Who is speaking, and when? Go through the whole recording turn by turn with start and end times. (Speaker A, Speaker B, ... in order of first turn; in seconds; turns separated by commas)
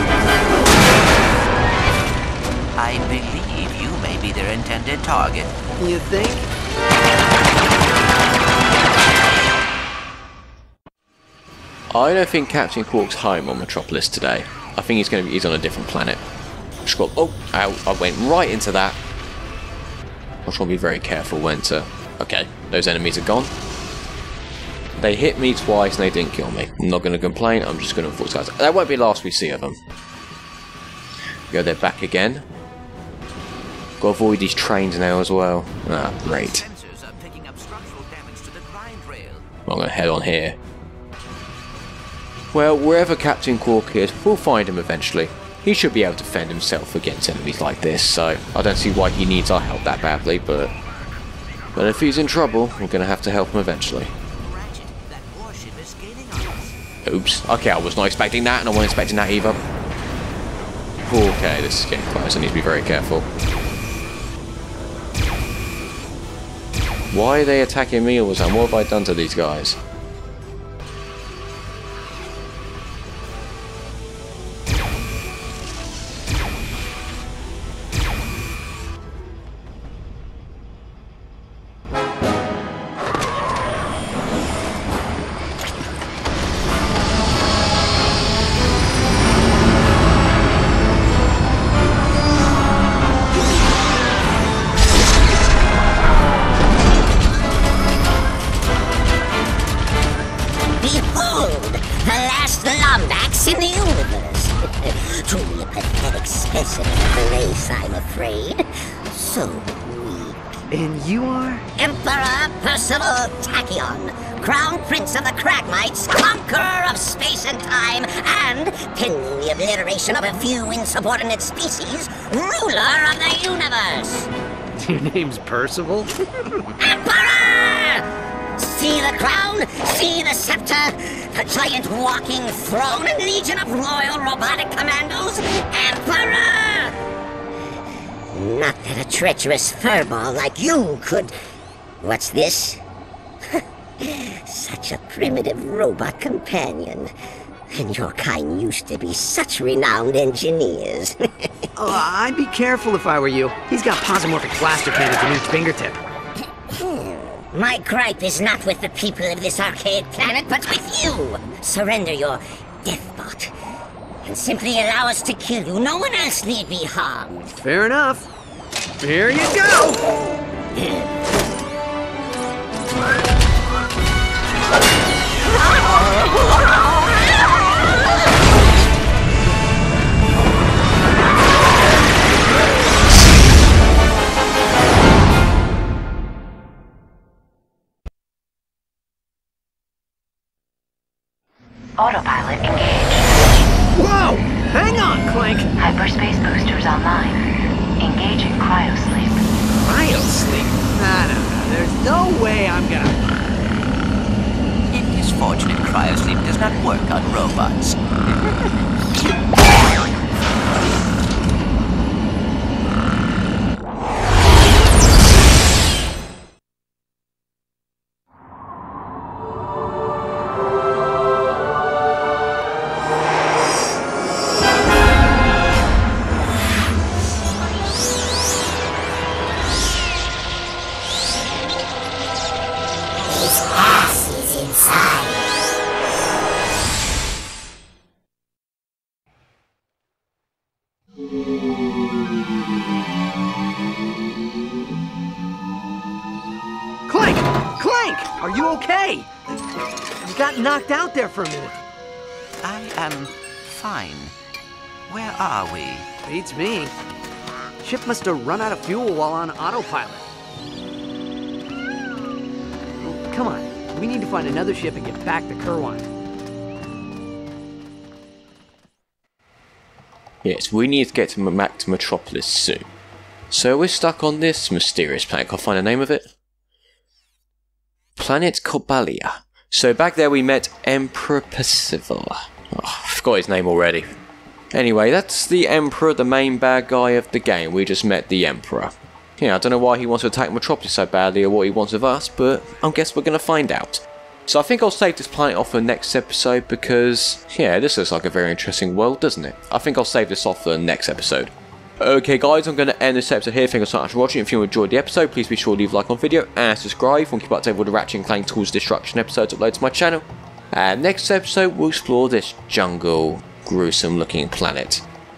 Speaker A: 2.8-5.5, Speaker B: 5.8-6.5, Speaker C: 11.9-16.2, Speaker C: 16.9-19.0, Speaker C: 20.5-23.5, Speaker C: 25.0-29.8, Speaker C: 31.5-32.5, Speaker C: 34.0-36.7, Speaker A: 36.1-39.5, Speaker C: 39.7-40.6, Speaker C: 42.5-50.7, Speaker C: 51.8-54.1, Speaker A: 54.4-56.8, Speaker C: 57.0-59.6, Speaker C: 61.0-63.3, Speaker C: 67.1-69.8, Speaker D: 100.8-110.4, Speaker B: 110.7-111.7, Speaker D: 111.8-124.3, Speaker B: 124.8-126.6, Speaker D: 126.8-128.1, Speaker D: 128.6-137.0, Speaker D: 138.3-141.3, Speaker D: 142.0-142.8, Speaker D: 144.0-147.1, Speaker D: 147.7-151.2, Speaker B: 151.8-156.0, Speaker D: 156.8-163.5, Speaker D: 164.2-167.5, Speaker B: 167.6-168.3, Speaker B: 169.0-170.0, Speaker E: 192.0-193.4, Speaker B: 193.9-195.7, Speaker E: 195.8-197.4, Speaker E: 198.0-199.4, Speaker B: 199.8-203.2, Speaker A: 204.9-208.0, Speaker D: 233.4-235.3, Speaker B: 247.1-249.3, Speaker B: 250.2-251.8, Speaker A: 252.6-254.3, Speaker A: 255.1-256.1, Speaker B: 256.3-256.9, Speaker B: 257.8-260.3, Speaker B: 263.0-266.1, Speaker C: 270.4-272.9, Speaker C: 273.5-276.3, Speaker C: 278.2-284.1, Speaker C: 284.7-315.1